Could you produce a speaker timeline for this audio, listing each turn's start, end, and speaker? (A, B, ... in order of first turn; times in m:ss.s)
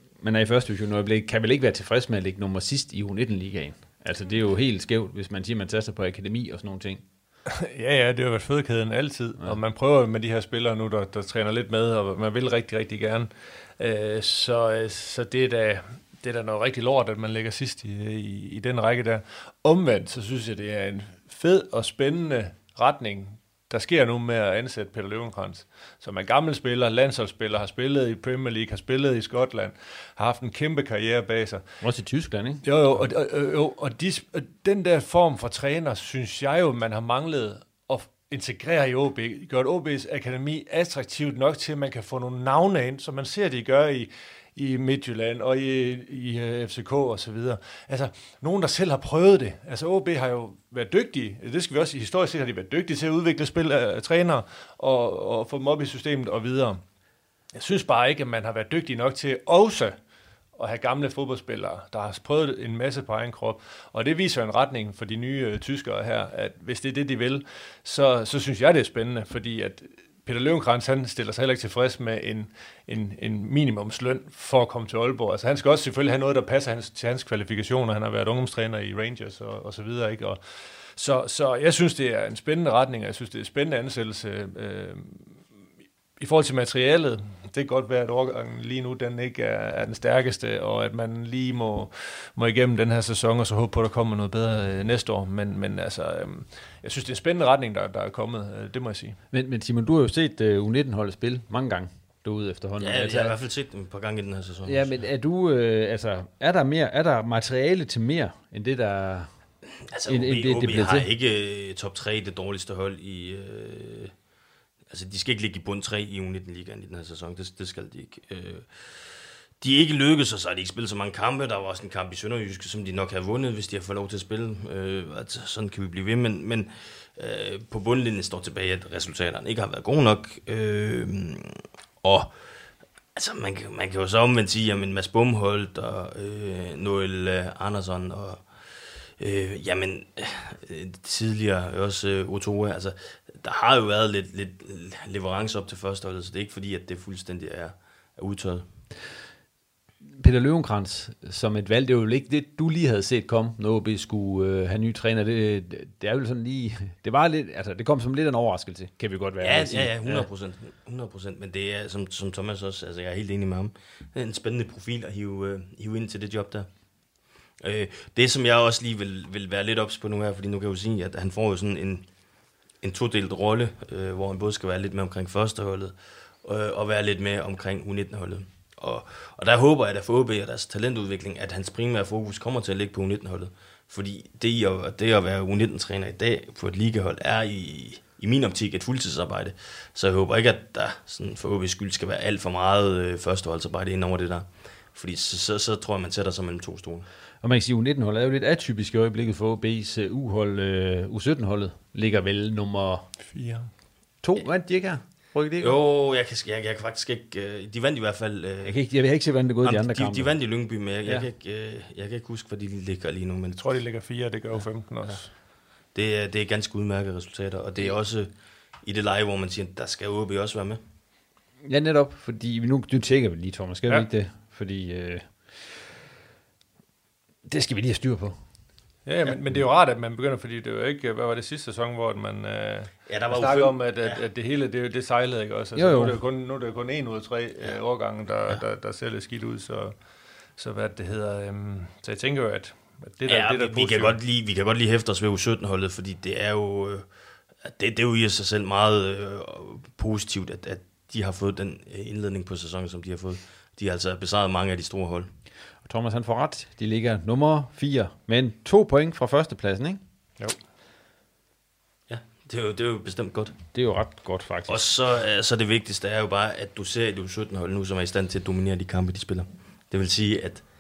0:00.2-0:07.0 A
0:07.6-0:31.6 B
0:31.8-0:33.1 A
0:32.6-0:56.8 B
0:57.5-0:59.9 B
1:00.6-1:20.4 B
1:20.9-1:25.4 B
1:26.2-1:39.2 B
1:39.3-1:43.4 A
1:42.8-1:45.0 C
1:44.6-1:49.3 A
1:49.9-1:54.1 C
1:50.1-1:51.1 A
1:54.9-1:59.1 C
1:59.6-2:12.3 C
2:13.2-2:18.4 C
2:19.2-2:28.6 C
2:30.2-2:40.3 A
2:39.4-2:46.7 C
2:47.6-2:52.1 C
2:52.8-3:17.1 C
3:17.4-3:23.1 A
3:23.3-3:23.7 B
3:24.2-3:25.8 A
3:25.6-3:28.8 C
3:28.6-3:30.4 A
3:29.6-3:33.6 C
3:33.6-3:35.3 B
3:35.9-3:38.3 C
3:38.8-3:40.8 C
3:41.6-3:45.8 A
3:47.4-3:48.4 A
3:49.0-4:00.0 B
3:53.1-3:54.2 C
3:55.8-3:56.2 A
4:00.6-4:04.2 B
4:03.2-4:07.1 C
4:07.6-4:15.3 C
4:15.8-4:20.0 A
4:22.1-4:23.6 C
4:23.7-4:24.9 A
4:24.7-4:30.6 C